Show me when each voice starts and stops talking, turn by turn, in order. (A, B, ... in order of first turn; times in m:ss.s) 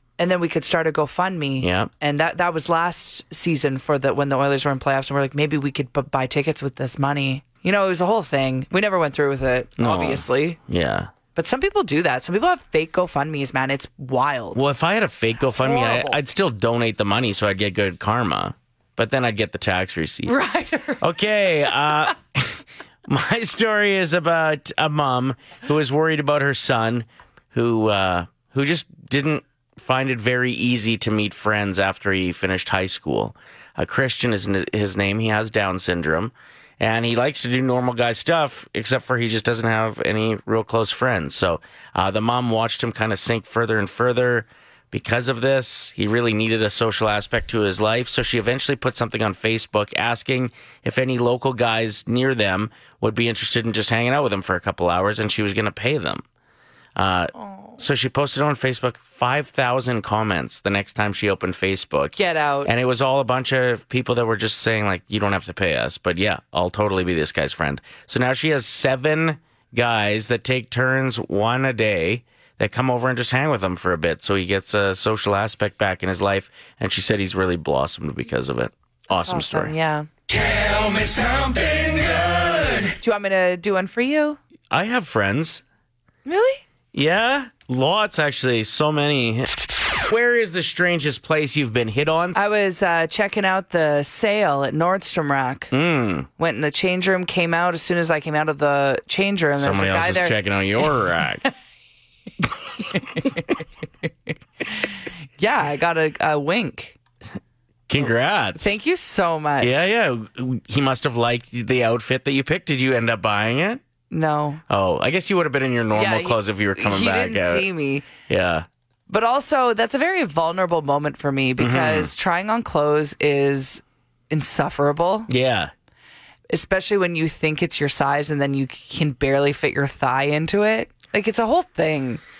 0:00.2-0:10.6 A
0:01.6-0:01.9 B
0:09.8-0:11.1 B
0:11.3-0:14.6 A
0:14.6-0:20.4 B
0:15.6-0:16.2 A
0:20.3-0:21.2 A
0:21.0-0:56.2 B
0:57.0-1:19.7 B
0:57.4-0:57.8 A
1:02.2-1:02.7 A
1:19.1-1:20.1 A
1:20.3-1:22.7 B
1:23.0-1:24.4 A
1:24.7-1:25.6 B
1:26.2-1:26.6 A
1:26.9-1:29.6 B
1:30.1-1:32.4 B
1:32.4-1:35.7 A
1:35.7-1:36.3 B
1:36.4-1:40.4 A
1:39.6-1:41.4 B
1:45.4-1:47.0 A
1:47.9-1:48.8 B
1:48.6-1:49.8 A
1:49.6-1:53.8 B
1:54.1-1:54.6 A
1:54.7-1:57.7 B
1:55.9-1:58.1 A
1:58.3-1:58.7 B
1:59.1-2:05.3 A
2:01.6-2:02.1 B
2:05.3-2:05.7 B
2:06.5-2:12.2 A